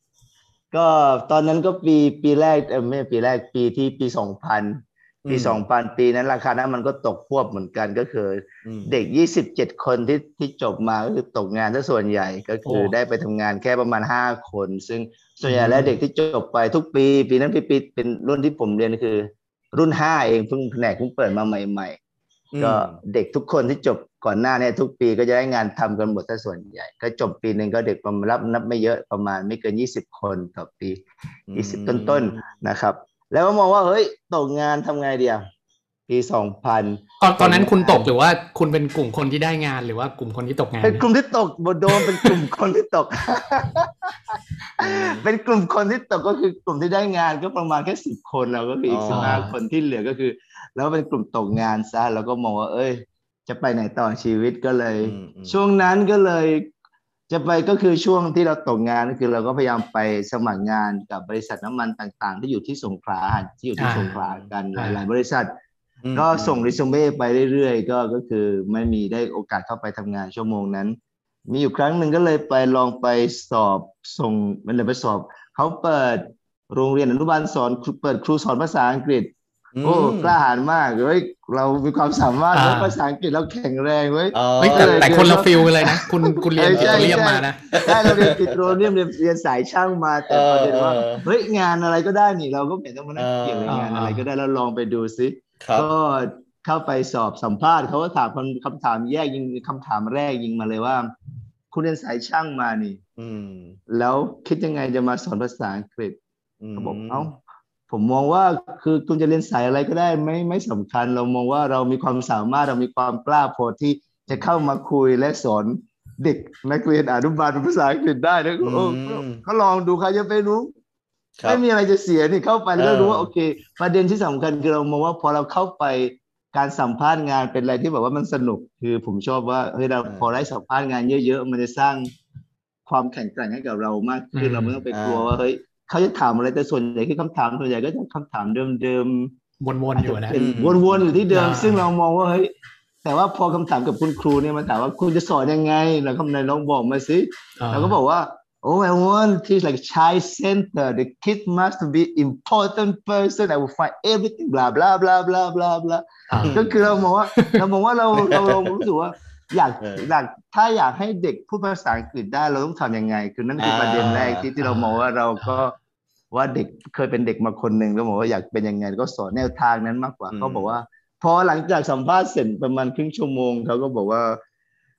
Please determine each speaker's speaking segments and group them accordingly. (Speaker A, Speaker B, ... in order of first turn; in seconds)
Speaker A: 0.7-22.0, 22.6-31.0, 31.5-35.4, 36.1-38.1, 40.8-56.7, 57.3-65.5, 66.2-71.0, 71.5-79.3, 79.8-101.1, 101.7-103.0, 103.9-106.2, 106.8-107.4, 107.9-120.7, 121.5-132.1, 132.9-139.3, 140.0-142.5, 143.0-165.7, 166.3-174.4
Speaker B: 5.2-5.6, 8.7-8.9, 22.5-23.0, 31.5-32.4, 44.8-45.3, 48.9-49.4, 55.0-55.6, 64.2-64.5, 66.0-66.7, 79.8-80.3, 84.3-85.2, 86.6-88.9, 90.3-91.2, 93.2-93.8, 95.6-95.9, 103.2-103.8, 106.6-107.3, 118.6-119.4, 122.8-123.3, 134.9-135.3, 140.3-141.1, 158.2-158.7, 159.8-160.1, 163.6-164.5, 170.3-170.7
Speaker C: 12.7-12.9, 15.5-16.0, 37.2-41.0, 42.0-42.3, 49.1-49.5, 63.8-64.1, 64.8-65.0, 82.5-83.0, 84.6-87.6, 93.7-94.2, 134.3-134.8, 139.6-140.4, 141.3-141.9, 147.6-148.0, 156.3-156.7, 157.3-157.6, 164.6-165.6